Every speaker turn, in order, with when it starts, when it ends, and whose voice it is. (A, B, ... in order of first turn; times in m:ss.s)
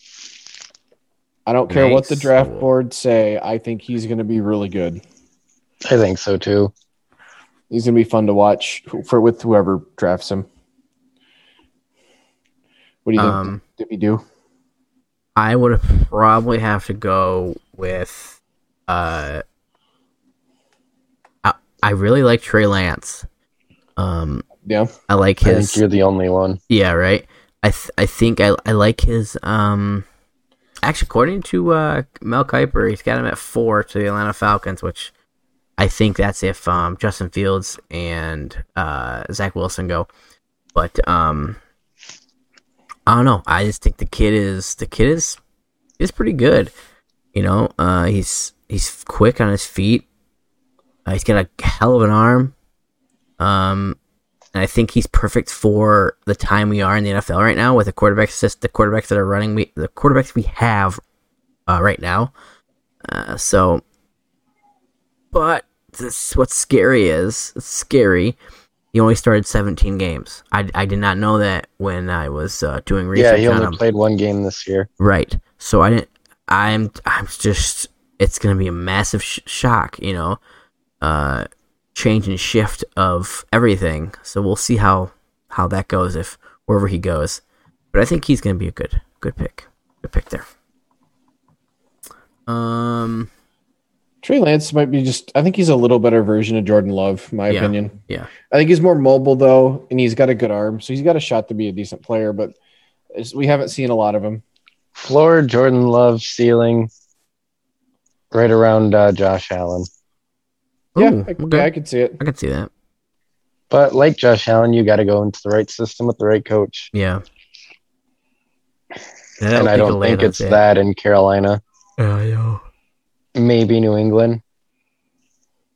0:01.5-0:05.0 A
0:01.7-0:02.7 B
0:05.9-0:06.7 C
0:07.7-0:10.5 A
0:13.0-0:14.2 A
0:13.2-0:13.6 B
0:15.4-0:19.4 B
0:21.4-0:23.3 B
0:24.0-0:24.5 B
0:24.6-0:24.9 A
0:25.1-0:25.8 B
0:25.4-0:26.6 C
0:26.7-0:30.1 B
0:30.8-0:35.1 B
0:35.8-0:40.1 B
0:40.8-0:41.6 B
0:43.1-0:45.4 B
0:46.0-0:46.7 B
0:47.3-0:50.1 B
0:51.1-0:52.6 B
0:53.4-0:54.0 B
0:54.5-1:01.0 B
1:01.7-1:02.3 B
1:03.0-1:03.8 B
1:05.3-1:08.4 B
1:08.9-1:13.8 B
1:13.1-1:14.9 C
1:15.0-1:20.4 B
1:21.0-1:27.4 B
1:27.9-1:30.5 B
1:32.5-1:33.3 B
1:34.2-1:38.0 A
1:37.5-1:38.3 B
1:38.5-1:42.6 A
1:43.1-1:44.4 A
1:45.0-1:46.9 C
1:48.3-1:49.9 C
1:51.0-1:52.7 B
1:51.0-1:52.2 A
1:53.7-1:56.9 C
1:56.9-1:57.2 B
1:59.4-2:00.6 B
1:59.6-2:01.6 C
2:02.0-2:02.6 B
2:03.4-2:04.4 C